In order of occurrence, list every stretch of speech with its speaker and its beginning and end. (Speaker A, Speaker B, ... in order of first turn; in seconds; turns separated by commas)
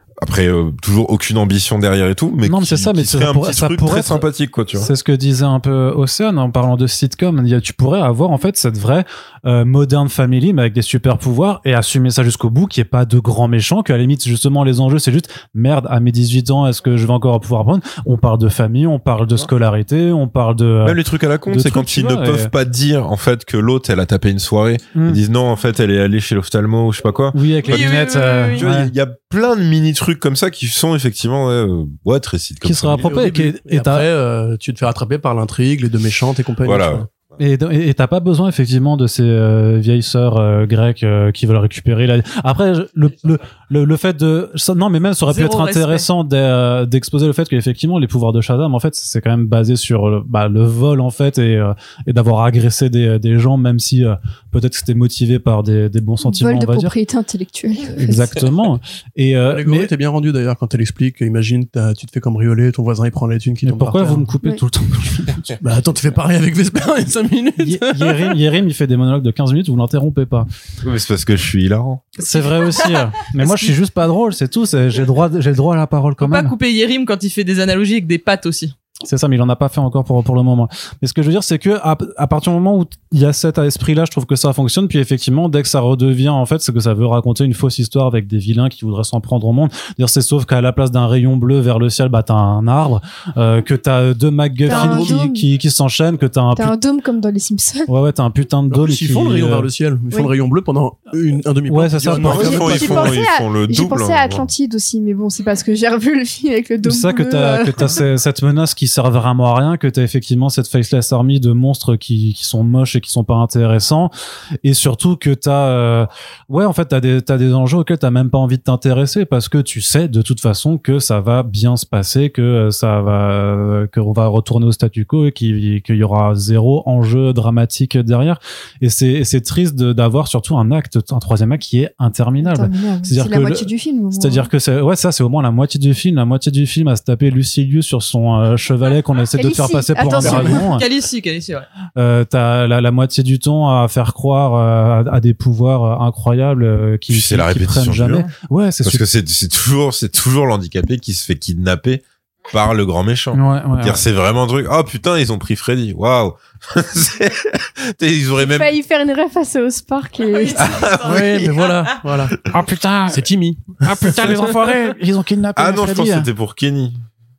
Speaker A: 0.2-4.9, Speaker B: 2.5-4.2, Speaker B: 4.8-22.5, Speaker A: 20.8-27.9, Speaker B: 24.9-25.2, Speaker B: 27.3-28.9, Speaker C: 27.6-28.7, Speaker A: 28.6-33.1, Speaker B: 32.6-34.1, Speaker D: 33.0-37.1, Speaker A: 36.6-37.1, Speaker B: 37.4-56.9, Speaker C: 45.3-46.1, Speaker E: 56.2-58.5, Speaker B: 58.0-59.9, Speaker D: 59.5-64.3, Speaker B: 63.6-65.6, Speaker D: 65.6-68.4, Speaker B: 67.6-70.5, Speaker A: 70.8-72.0, Speaker B: 72.2-76.6, Speaker C: 73.4-73.7, Speaker C: 76.2-78.8, Speaker B: 79.0-96.8, Speaker E: 94.7-95.5, Speaker D: 94.7-95.2, Speaker E: 96.6-97.9, Speaker B: 97.9-99.7, Speaker D: 98.7-103.2, Speaker B: 101.7-102.9, Speaker A: 102.2-104.5, Speaker E: 102.3-108.0, Speaker B: 106.8-114.1, Speaker B: 114.6-140.9, Speaker E: 132.4-134.5, Speaker E: 139.4-140.7, Speaker C: 140.2-141.7, Speaker B: 141.9-149.0, Speaker A: 147.1-148.3, Speaker A: 148.8-158.7, Speaker B: 153.3-154.0, Speaker E: 158.4-160.9, Speaker C: 160.2-161.4, Speaker A: 160.6-161.5, Speaker D: 161.1-162.4, Speaker B: 162.5-163.2, Speaker D: 163.1-164.1, Speaker B: 163.8-166.3, Speaker A: 164.1-164.4, Speaker A: 165.6-167.0